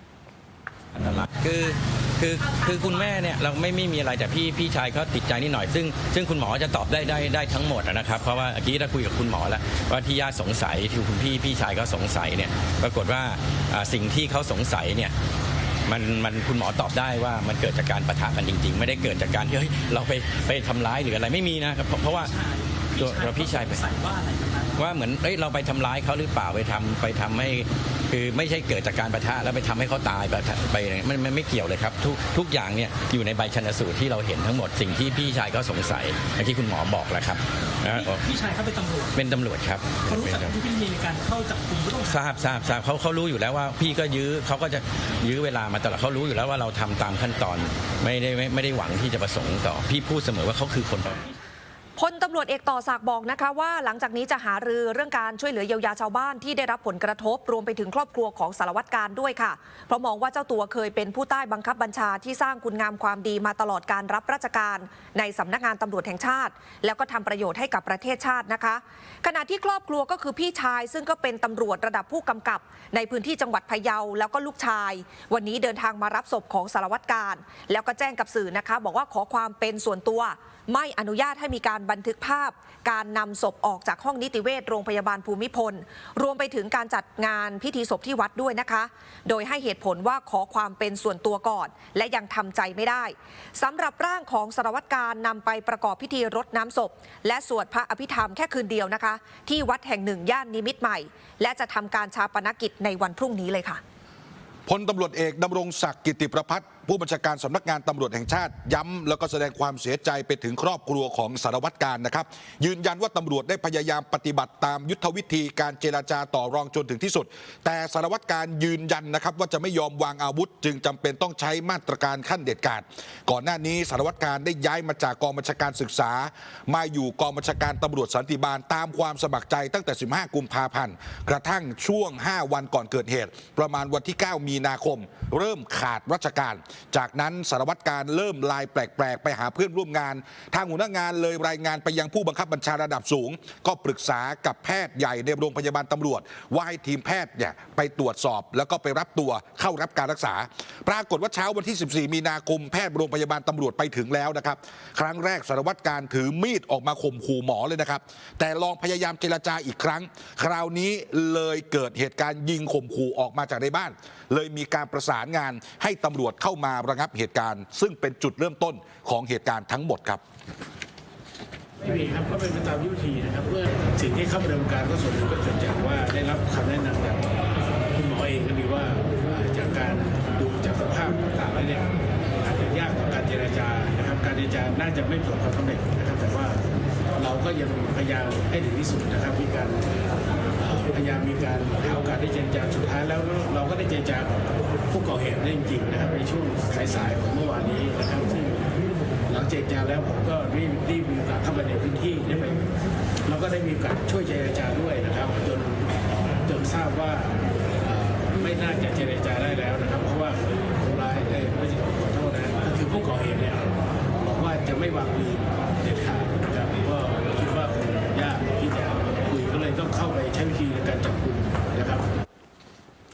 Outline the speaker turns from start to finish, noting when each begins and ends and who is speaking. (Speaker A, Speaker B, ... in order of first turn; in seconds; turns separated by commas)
Speaker A: 1.0-15.1, Speaker A: 15.9-22.3, Speaker B: 22.2-24.9, Speaker A: 23.0-23.9, Speaker A: 24.8-38.3, Speaker B: 37.9-39.2, Speaker A: 39.1-40.6, Speaker B: 40.1-42.3, Speaker A: 42.1-51.2, Speaker C: 52.0-103.8, Speaker D: 104.7-170.2, Speaker E: 171.8-177.3, Speaker E: 177.9-186.6, Speaker E: 187.2-189.8, Speaker E: 190.6-198.8, Speaker E: 199.3-202.7, Speaker E: 203.3-222.1